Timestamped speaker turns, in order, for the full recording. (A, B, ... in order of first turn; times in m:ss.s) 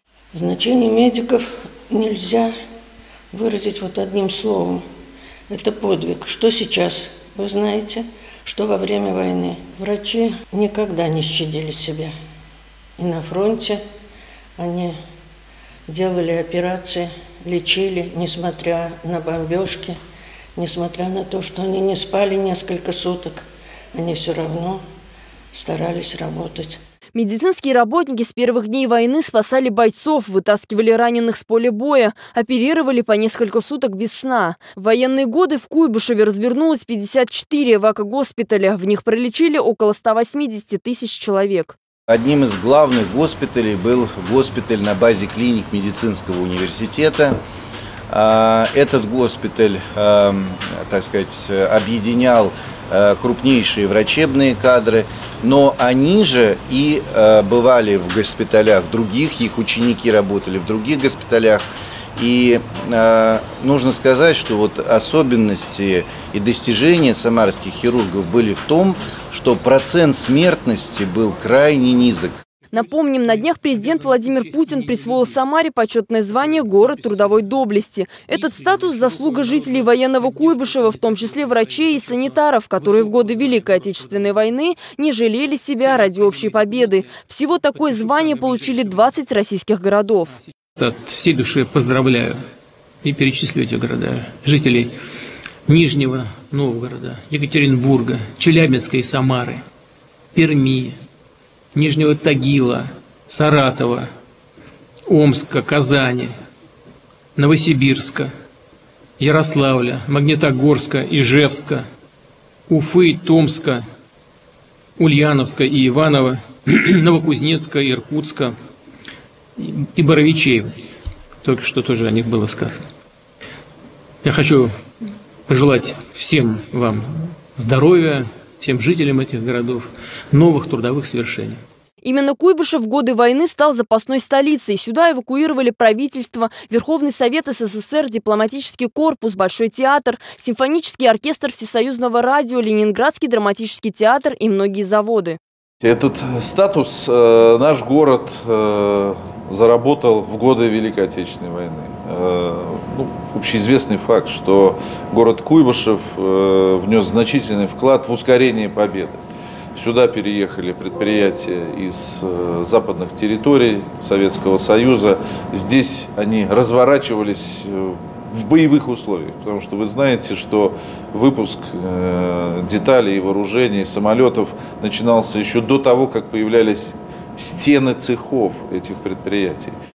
0:00.3-0:02.5 A
0:03.3-0:04.8 A
0:05.5-0:12.1 A
0:13.0-0:13.8 A
0:14.6-0:15.0 A
0:15.9-0:20.0 A
0:20.6-0:24.8 A
0:25.5-0:26.8 A
0:27.1-0:41.8 B
0:42.1-0:47.3 C
0:48.1-1:12.4 C
1:12.7-1:30.3 B
1:30.8-1:32.4 D
1:33.0-1:35.0 D
1:35.6-1:39.6 D
1:40.3-1:41.0 D
1:41.7-1:44.1 D
1:45.1-1:46.3 D
1:47.4-1:48.3 D
1:49.2-1:51.8 D
1:52.7-1:53.8 D
1:55.0-1:58.5 D
1:59.6-2:00.7 D
2:01.4-2:02.9 D
2:04.2-2:04.7 D
2:05.5-2:11.6 D
2:12.0-2:25.4 B
2:25.8-2:39.2 E
2:39.7-2:59.7 E